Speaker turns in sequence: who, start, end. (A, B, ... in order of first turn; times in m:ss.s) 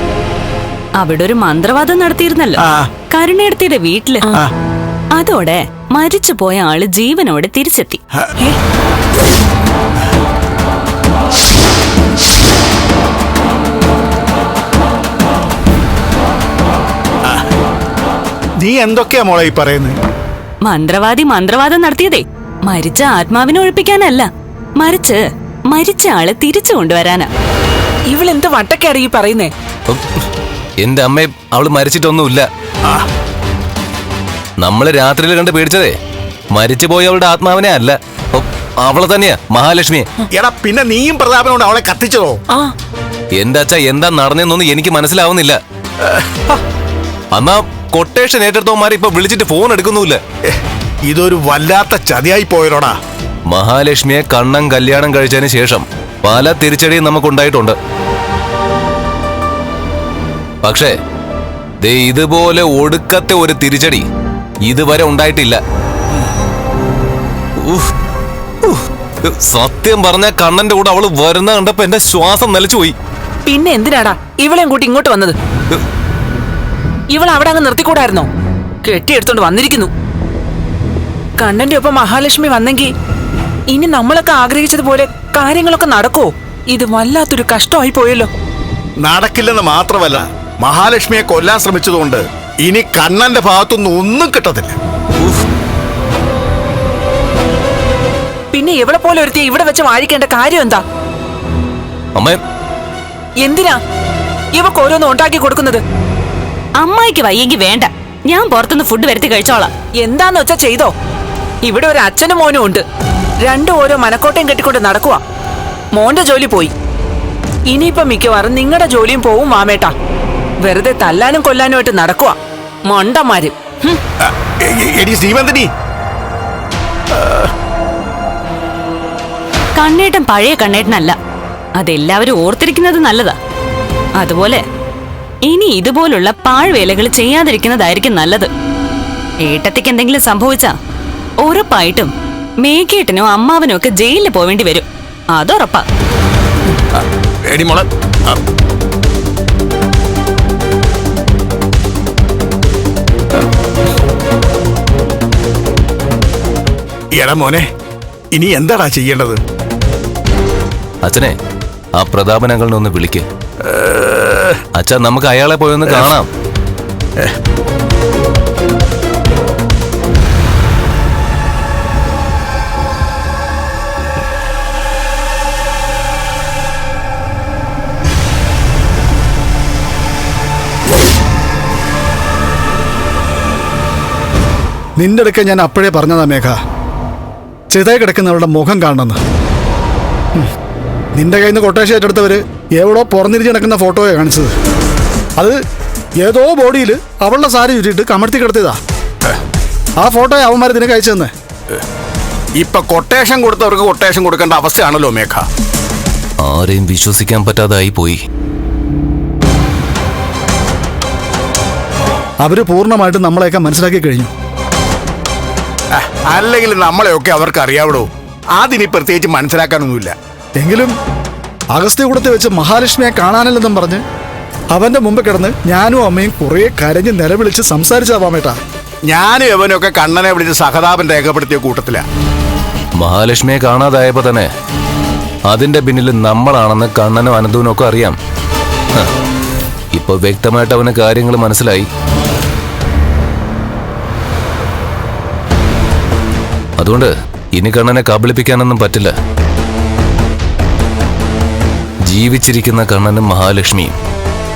0:01.0-0:04.3 A
0:02.6-0:02.9 B
0:05.2-0:08.0 A
0:18.6-0:20.0 B
0:20.7-0:25.2 A
0:25.7-0:27.3 A
0:28.1-0:29.5 C
0:30.8-0:32.5 D
0:34.6-0:35.9 D
0:36.5-0:40.1 D
0:40.3-0:42.4 B
0:43.4-0:45.6 D
0:46.0-0:46.5 B
0:47.3-0:50.2 D
0:51.1-0:53.0 B
0:53.5-0:57.8 D
1:00.6-1:00.9 D
1:01.8-1:04.0 D
1:04.7-1:05.6 D
1:07.6-1:07.9 D
1:08.6-1:13.0 D
1:13.5-1:15.4 C
1:17.1-1:18.3 C
1:18.8-1:19.9 C
1:21.4-1:22.9 C
1:23.7-1:28.3 C
1:29.0-1:34.8 B
1:38.5-1:40.8 C
1:43.4-1:43.8 C
1:44.6-1:45.8 C
1:46.8-1:49.7 A
1:50.0-1:50.9 C
1:51.6-1:52.8 C
1:53.4-1:55.2 C
1:55.9-1:56.7 C
1:57.7-1:59.9 C
2:00.6-2:02.4 C
2:02.9-2:03.6 C
2:04.2-2:05.7 B
2:07.1-2:07.5 B
2:09.8-2:11.2 A
2:11.8-2:13.4 A
2:14.2-2:14.6 A
2:15.5-2:18.5 A
2:19.4-2:20.7 A
2:21.4-2:22.1 A
2:22.6-2:25.8 A
2:27.5-2:28.4 B
2:37.1-2:37.7 B
2:38.3-2:39.4 B
2:41.0-2:41.3 D
2:42.0-2:43.2 D
2:43.6-2:44.6 B
2:44.8-2:46.3 D
3:05.0-3:06.6 E
3:07.7-3:09.2 E
3:11.2-3:14.5 E
3:16.2-3:18.8 E
3:20.0-3:21.3 E
3:22.6-3:25.5 B
3:26.4-3:28.2 D
3:32.4-3:34.3 E
3:35.9-3:40.2 B
3:40.6-3:40.9 E
3:41.7-3:44.0 E
3:44.7-3:48.6 E
3:49.1-3:52.0 B
3:53.0-3:54.5 D
3:55.5-3:58.2 D
3:59.9-4:01.9 D
4:06.8-4:09.1 D
4:12.1-4:14.0 D